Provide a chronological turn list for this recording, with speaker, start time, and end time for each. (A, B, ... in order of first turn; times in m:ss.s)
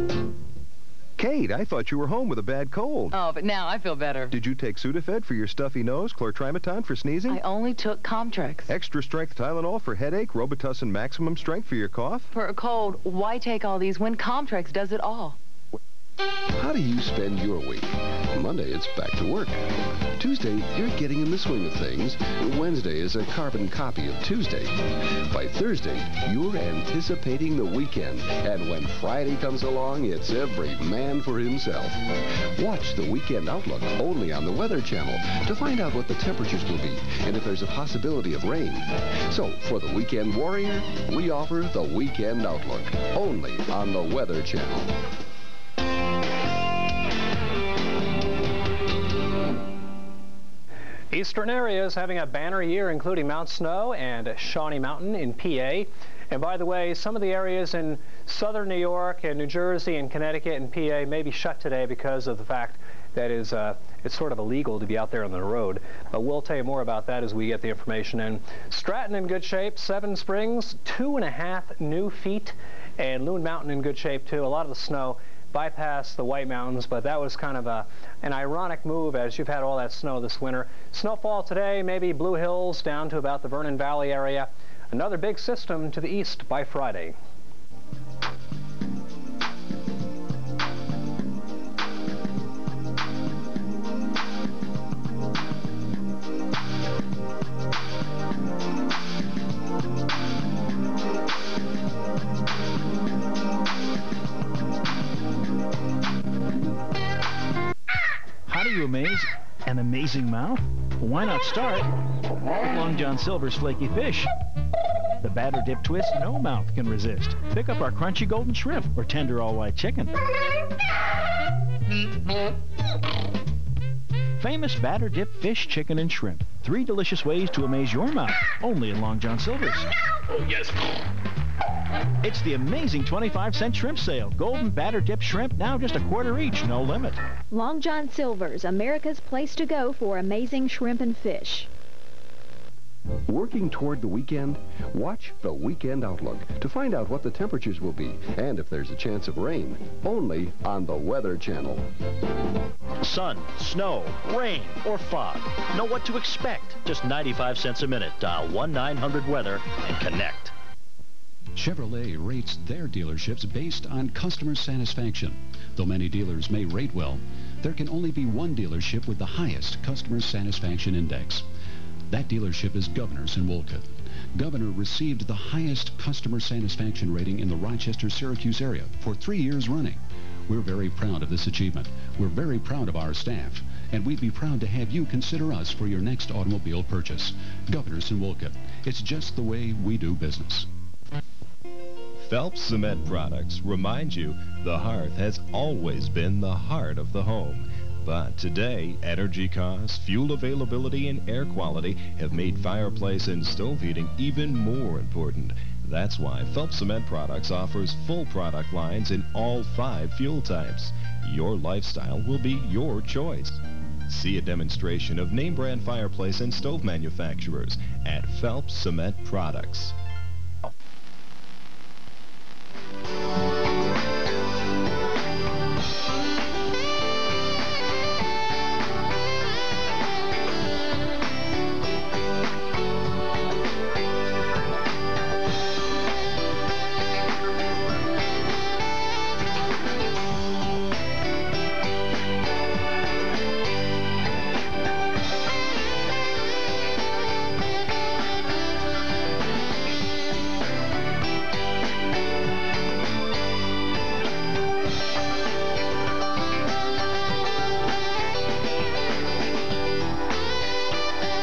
0:01.2-0:03.1 A
0:03.1-0:04.4 B
0:04.3-0:07.4 A
0:07.3-0:08.7 B
0:08.7-0:12.3 A
0:12.3-0:15.4 B
0:16.5-0:44.9 C
0:51.1-1:27.1 D
1:48.5-1:51.9 E
1:52.6-1:54.3 E
1:55.2-2:00.2 E
2:04.4-2:09.9 E
2:12.2-2:17.2 E
2:17.5-2:21.7 F
2:23.3-2:31.9 C
2:33.1-2:35.0 G
2:36.4-2:37.0 G
2:37.7-2:38.8 G
2:39.3-2:40.4 G
2:41.6-2:51.5 H
2:52.1-3:10.7 H
3:12.2-3:39.9 I